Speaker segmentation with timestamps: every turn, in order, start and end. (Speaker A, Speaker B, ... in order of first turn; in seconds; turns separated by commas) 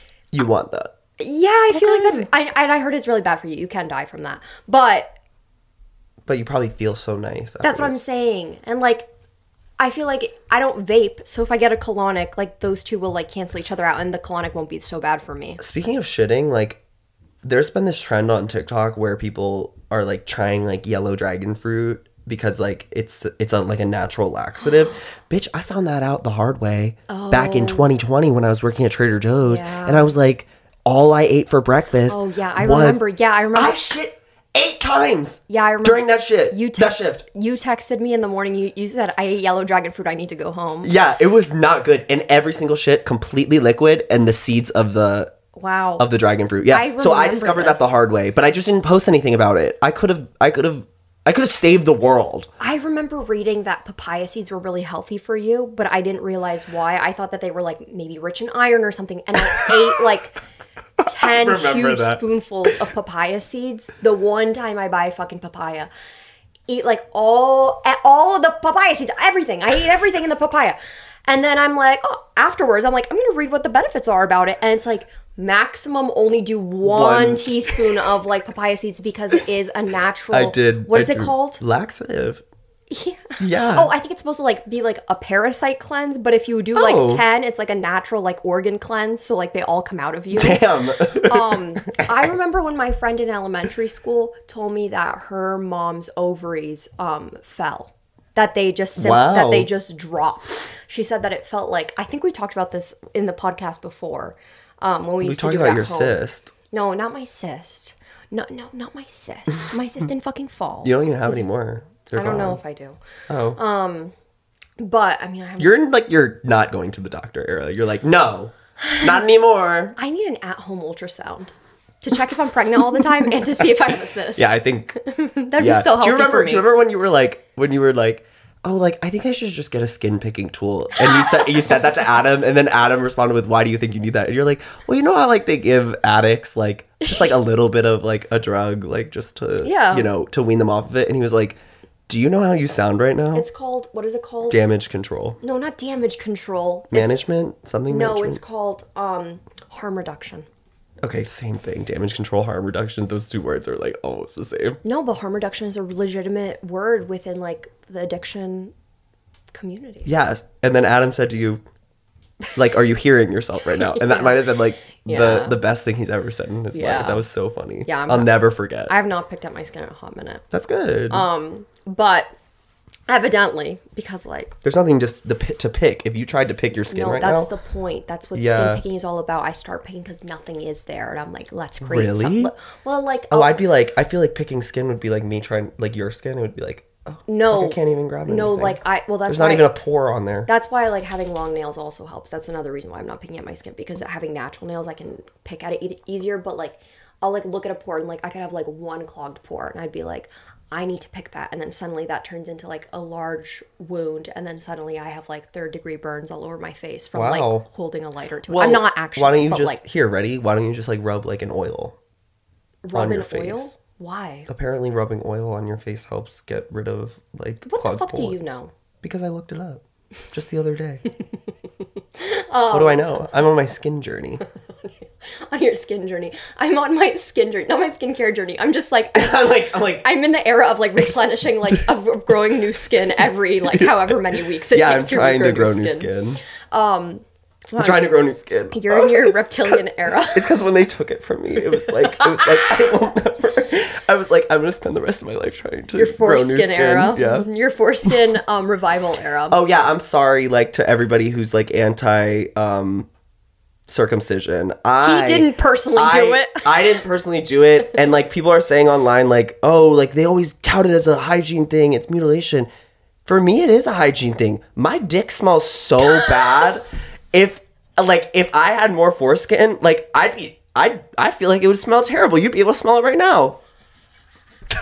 Speaker A: 0.3-0.9, Speaker B: 1.2-5.2, Speaker A: 1.7-2.3, Speaker A: 6.2-8.0, Speaker B: 7.6-9.1, Speaker B: 9.8-15.6, Speaker A: 15.6-16.8, Speaker A: 17.4-33.0, Speaker B: 27.1-27.9, Speaker B: 29.4-30.1, Speaker B: 32.1-33.9, Speaker A: 33.5-37.2, Speaker B: 35.5-40.9, Speaker A: 40.8-45.3, Speaker B: 45.5-46.1, Speaker A: 46.0-52.5, Speaker B: 46.7-47.9, Speaker B: 52.6-60.4, Speaker B: 61.0-65.9, Speaker A: 61.1-62.2, Speaker B: 66.7-81.6, Speaker A: 76.8-78.0, Speaker A: 80.3-82.4, Speaker B: 82.9-106.2, Speaker A: 83.4-83.9, Speaker A: 86.7-87.2, Speaker A: 90.3-92.0, Speaker A: 99.0-99.7, Speaker A: 105.2-106.5, Speaker B: 106.7-111.4, Speaker A: 110.8-112.6, Speaker B: 112.1-113.0, Speaker A: 113.3-113.6, Speaker B: 113.5-114.1, Speaker B: 114.8-115.8, Speaker A: 115.6-120.0, Speaker B: 120.0-126.7, Speaker A: 124.3-124.9, Speaker A: 125.6-143.5, Speaker B: 139.6-140.1, Speaker B: 143.3-144.7, Speaker A: 144.5-145.4, Speaker B: 145.4-147.2, Speaker A: 146.9-148.4, Speaker B: 147.9-150.5, Speaker A: 151.0-154.8, Speaker B: 154.8-158.7, Speaker B: 159.5-160.1, Speaker A: 160.1-161.6, Speaker A: 162.5-168.9, Speaker B: 163.8-164.4, Speaker B: 164.9-165.6, Speaker B: 166.7-167.2, Speaker B: 167.8-168.3, Speaker B: 168.8-170.4, Speaker A: 170.5-171.2, Speaker B: 171.1-172.3, Speaker B: 173.1-174.6, Speaker A: 174.6-177.5, Speaker B: 176.9-183.6, Speaker A: 178.3-178.8, Speaker A: 181.8-182.5, Speaker A: 183.3-190.5, Speaker B: 187.3-189.7, Speaker B: 190.5-209.8, Speaker A: 207.1-207.6, Speaker A: 208.5-212.0, Speaker B: 212.8-214.5, Speaker A: 212.9-213.8, Speaker A: 214.5-221.0, Speaker B: 217.7-218.7, Speaker B: 222.2-223.1, Speaker A: 222.7-224.4, Speaker B: 225.4-236.1, Speaker A: 229.2-230.1, Speaker A: 233.7-234.2, Speaker A: 234.7-236.4, Speaker B: 236.7-238.1, Speaker A: 237.8-247.5, Speaker B: 238.7-240.5, Speaker B: 242.0-242.5, Speaker B: 245.9-249.6, Speaker A: 249.5-253.1, Speaker A: 253.9-262.7, Speaker B: 255.0-256.9, Speaker A: 263.2-273.6